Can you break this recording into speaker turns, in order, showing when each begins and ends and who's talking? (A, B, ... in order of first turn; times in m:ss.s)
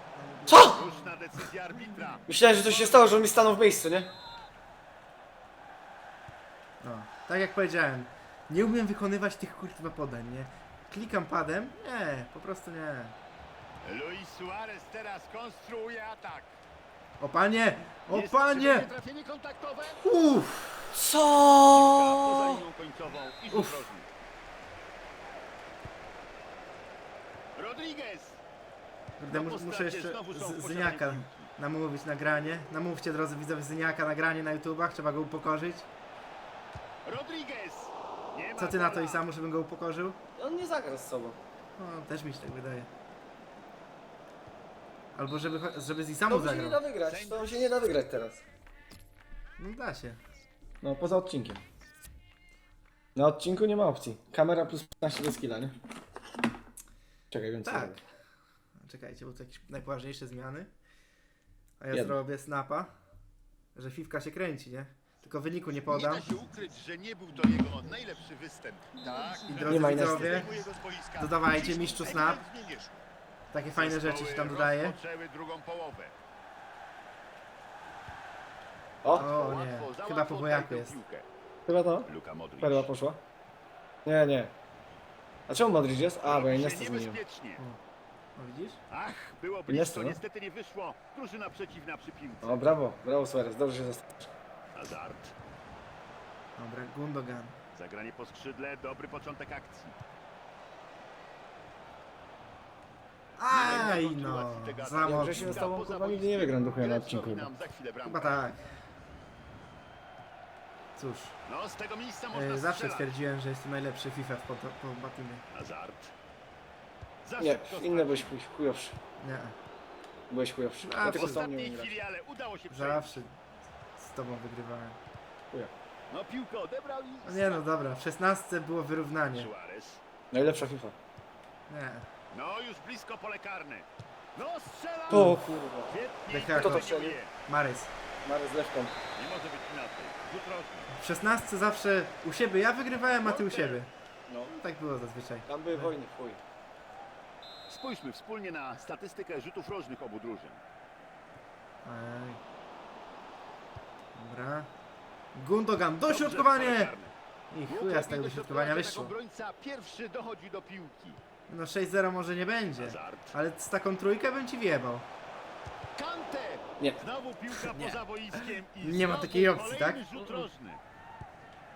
0:00.4-0:00.9 A
0:00.5-0:03.3 B
0:02.3-0:04.1 A
0:06.8-0:13.1 C
0:13.8-0:16.6 B
0:17.2-0:18.9 C
0:18.1-0:20.1 B
0:19.9-0:21.0 C
0:20.9-0:22.6 A
0:21.7-0:24.1 B
0:23.5-0:23.9 C
0:27.5-0:28.4 B
0:29.2-0:35.9 C
0:29.3-0:31.5 B
0:37.0-0:39.3 B
0:38.6-0:40.2 C
0:40.4-0:41.4 A
0:41.8-0:42.9 C
0:45.1-0:46.8 C
0:46.3-0:48.4 A
0:47.0-0:47.7 B
0:49.6-0:50.2 C
0:50.8-0:51.6 A
0:53.1-0:55.7 A
0:57.3-0:58.0 A
0:57.6-0:58.0 C
0:58.8-1:00.7 C
1:01.8-1:02.9 C
1:01.9-1:02.2 A
1:03.7-1:06.4 C
1:05.8-1:10.0 B
1:09.5-1:10.5 C
1:09.5-1:13.0 D
1:09.6-1:10.5 A
1:11.2-1:12.4 C
1:13.5-1:15.0 C
1:13.7-1:16.1 B
1:19.0-1:21.2 B
1:19.1-1:21.0 C
1:21.7-1:22.1 A
1:22.1-1:22.9 B
1:22.6-1:23.2 A
1:24.0-1:24.5 A
1:25.5-1:27.2 A
1:26.2-1:27.6 B
1:28.4-1:28.8 C
1:28.9-1:32.7 B
1:29.7-1:30.2 A
1:32.4-1:34.3 A
1:34.7-1:35.3 B
1:36.6-1:37.6 C
1:37.7-1:39.9 B
1:43.4-1:45.6 C
1:43.5-1:48.4 B
1:45.0-1:47.5 A
1:48.0-1:48.7 C
1:51.0-1:51.3 C
1:51.4-1:53.1 B
1:52.3-1:55.4 C
1:55.5-1:56.1 B
1:57.2-1:58.4 B
1:57.4-1:59.0 A
1:59.2-1:59.5 C
2:00.3-2:02.0 A
2:00.8-2:01.5 C
2:01.0-2:03.2 B
2:02.7-2:03.3 C
2:04.0-2:05.0 C
2:06.1-2:07.7 B
2:07.2-2:09.5 C
2:09.3-2:10.0 B
2:10.3-2:10.9 A
2:11.7-2:12.1 C
2:12.3-2:17.3 B
2:15.1-2:15.9 A
2:15.1-2:15.5 C
2:16.3-2:16.9 C
2:16.6-2:17.2 A
2:17.4-2:17.9 C
2:18.2-2:19.0 A
2:19.2-2:20.9 B
2:20.9-2:23.9 C
2:23.1-2:23.8 B
2:24.3-2:24.5 A
2:24.4-2:25.9 C
2:25.4-2:26.4 A
2:27.7-2:30.6 B
2:31.8-2:32.4 C
2:34.1-2:34.7 C
2:35.3-2:36.9 C
2:36.1-2:37.2 B
2:37.5-2:39.1 C
2:37.7-2:41.2 B
2:41.5-2:45.0 C
2:42.8-2:43.4 B
2:46.0-2:50.8 B
2:47.7-2:48.0 C
2:48.8-2:50.0 C
2:50.1-2:50.5 A